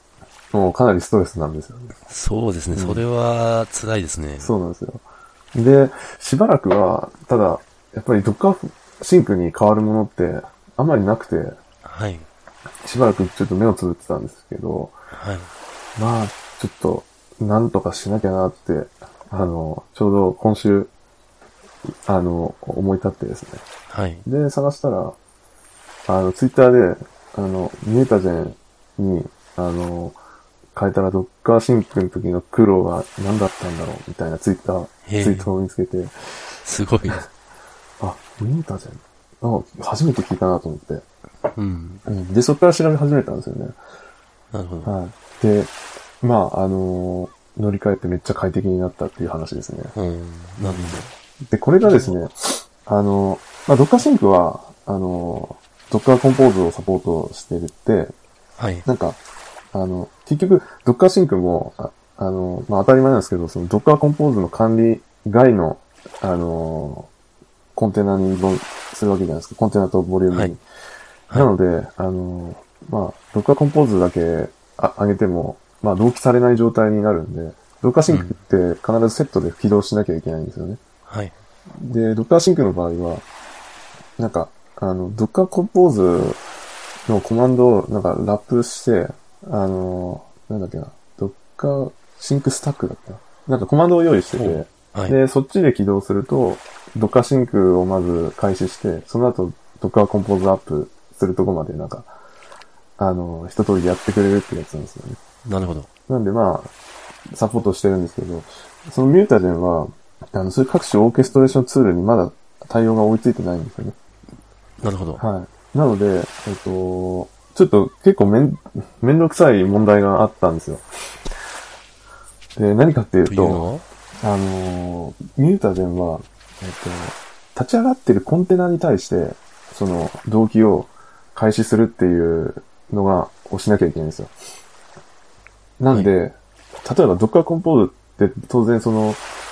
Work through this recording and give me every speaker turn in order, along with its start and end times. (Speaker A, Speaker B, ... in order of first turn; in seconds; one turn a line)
Speaker A: 0.5-1.9
Speaker B: 2.1-4.5
Speaker A: 2.7-3.0
Speaker A: 4.4-11.6
Speaker B: 11.8-12.3
Speaker A: 12.8-14.9
Speaker B: 15.1-15.5
Speaker A: 16.0-20.9
Speaker A: 22.1-23.6
Speaker B: 23.9-24.2
Speaker A: 24.2-25.2
Speaker A: 26.1-30.2
Speaker A: 30.8-36.1
Speaker B: 35.1-35.5
Speaker B: 36.6-37.3
Speaker A: 38.0-41.0
Speaker B: 41.5-42.0
Speaker A: 42.1-43.8
Speaker B: 44.5-45.0
Speaker A: 44.9-49.9
Speaker B: 50.0-51.1
Speaker A: 50.6-58.1
Speaker B: 51.8-52.1
Speaker B: 58.6-58.9
Speaker A: 58.9-59.2
Speaker A: 59.7-67.1
Speaker A: 67.8-70.6
Speaker A: 71.3-80.8
Speaker B: 78.1-78.4
Speaker B: 81.1-81.3
Speaker A: 81.8-83.2
Speaker A: 84.2-86.4
Speaker A: 87.1-102.1
Speaker B: 94.3-95.2
Speaker A: 103.0-105.2
Speaker B: 105.5-105.9
Speaker A: 106.1-106.7
Speaker A: 107.3-114.0
Speaker B: 114.8-115.2
Speaker A: 115.2-120.9
Speaker A: 122.6-123.7
Speaker B: 123.2-123.8
Speaker A: 124.2-134.3
Speaker A: 135.8-139.2